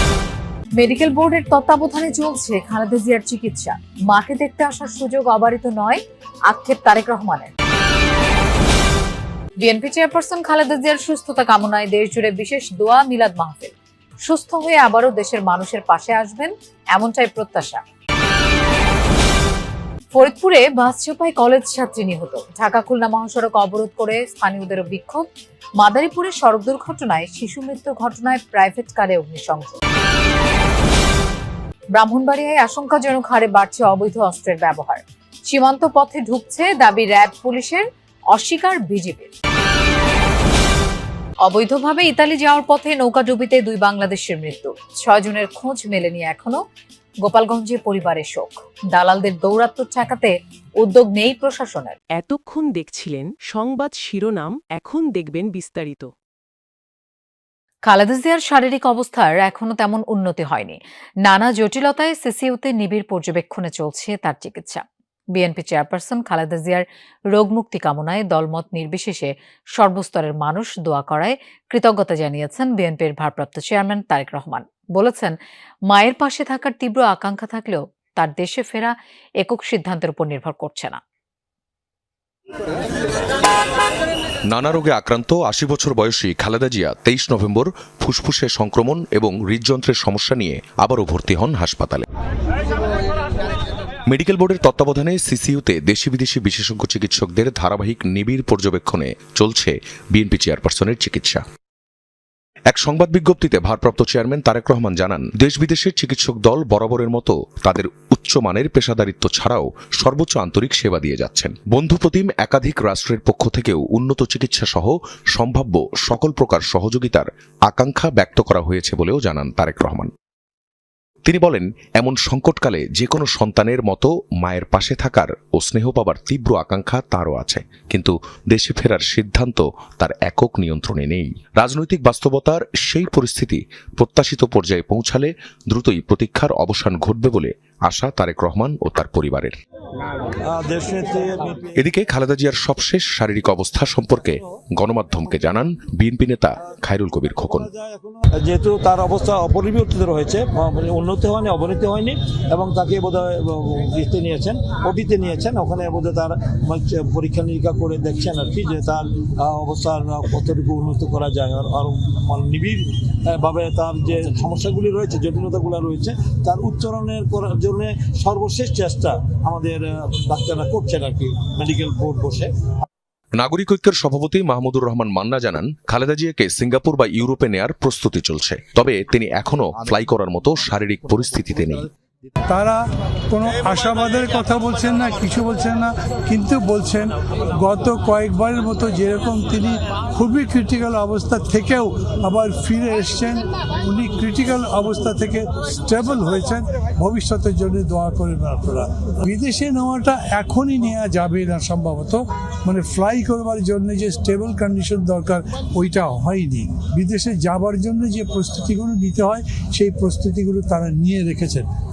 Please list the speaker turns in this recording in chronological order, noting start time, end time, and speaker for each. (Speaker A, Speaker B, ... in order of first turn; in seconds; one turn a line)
Speaker A: 0.8-7.5
Speaker A: 9.6-13.7
Speaker A: 14.2-17.8
Speaker A: 20.1-25.2
Speaker A: 25.8-29.8
Speaker A: 31.9-39.3
Speaker A: 41.4-46.6
Speaker A: 47.2-52.0
Speaker B: 52.1-56.1
Speaker A: 57.9-64.8
Speaker A: 65.3-75.3
Speaker A: 75.9-81.0
Speaker C: 84.5-92.0
Speaker C: 94.1-101.4
Speaker C: 102.7-120.1
Speaker C: 121.2-139.5
Speaker D: 140.5-141.8
Speaker C: 141.8-147.7
Speaker D: 147.3-172.5
Speaker C: 173.3-181.9
Speaker E: 182.5-211.7